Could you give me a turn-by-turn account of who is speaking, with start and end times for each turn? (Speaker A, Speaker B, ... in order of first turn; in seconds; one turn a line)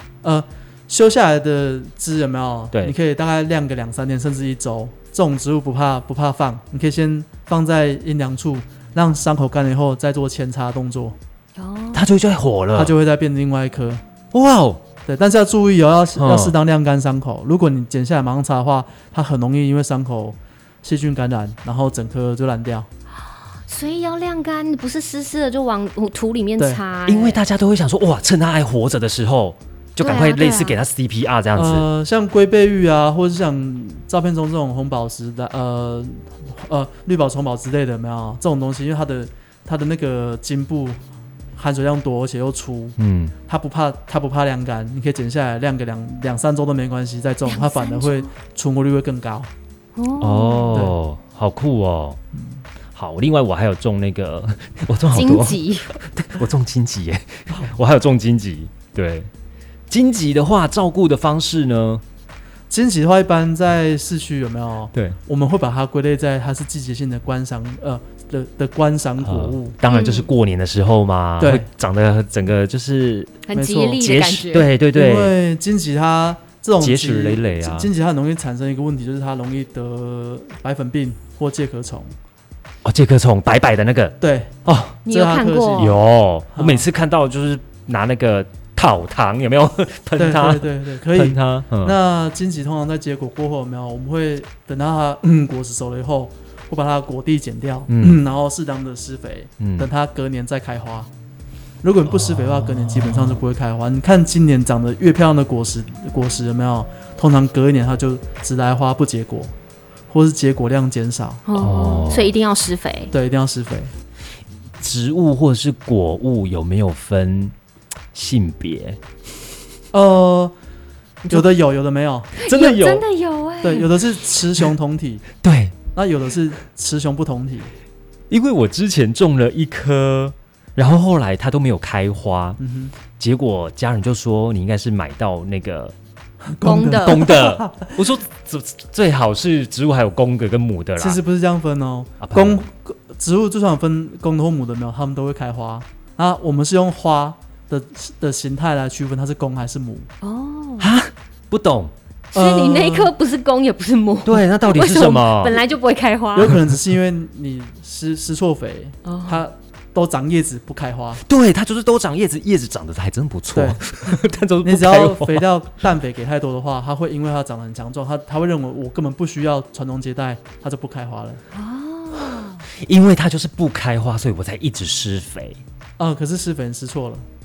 Speaker A: 0.2-11.2
Speaker B: 11.6-12.0
Speaker C: 11.9-12.9
Speaker A: 12.7-14.0
Speaker C: 14.3-14.8
Speaker A: 15.1-22.9
Speaker C: 16.1-16.6
Speaker B: 23.6-27.4
Speaker C: 27.1-31.9
Speaker B: 30.0-30.8
Speaker A: 31.5-41.0
Speaker A: 41.5-49.5
Speaker C: 43.0-43.3
Speaker B: 47.5-48.3
Speaker B: 50.0-50.8
Speaker C: 50.2-52.2
Speaker A: 52.3-52.6
Speaker C: 52.9-59.3
Speaker B: 55.1-55.9
Speaker C: 59.9-62.0
Speaker A: 62.7-69.8
Speaker C: 69.2-73.4
Speaker B: 69.9-70.3
Speaker A: 71.4-71.7
Speaker B: 73.5-74.7
Speaker A: 73.5-74.0
Speaker C: 74.0-75.3
Speaker A: 74.9-82.1
Speaker C: 76.8-77.9
Speaker C: 82.8-85.0
Speaker A: 84.2-84.5
Speaker B: 85.0-85.9
Speaker A: 85.1-86.0
Speaker C: 85.8-92.0
Speaker A: 86.5-86.8
Speaker A: 90.2-101.1
Speaker C: 97.9-98.2
Speaker C: 99.6-99.9
Speaker A: 101.8-109.5
Speaker C: 102.1-103.4
Speaker A: 110.1-111.4
Speaker B: 111.5-113.1
Speaker C: 111.5-112.3
Speaker A: 113.1-113.9
Speaker C: 114.8-117.5
Speaker C: 118.1-119.0
Speaker A: 119.9-120.5
Speaker A: 121.3-122.3
Speaker C: 122.4-123.0
Speaker B: 122.4-123.9
Speaker A: 123.6-125.2
Speaker C: 125.4-125.8
Speaker A: 125.9-127.7
Speaker C: 128.3-132.6
Speaker A: 132.6-132.9
Speaker C: 133.2-135.9
Speaker A: 136.4-137.9
Speaker B: 136.6-137.6
Speaker C: 136.9-141.2
Speaker A: 141.0-150.1
Speaker C: 142.2-142.6
Speaker B: 150.2-150.9
Speaker C: 150.8-151.9
Speaker A: 152.3-153.1
Speaker B: 152.3-156.6
Speaker C: 154.2-155.6
Speaker A: 156.3-161.2
Speaker B: 159.0-159.4
Speaker C: 161.2-165.5
Speaker A: 163.5-163.8
Speaker A: 164.6-171.4
Speaker B: 171.5-172.6
Speaker C: 172.2-175.6
Speaker A: 176.0-177.2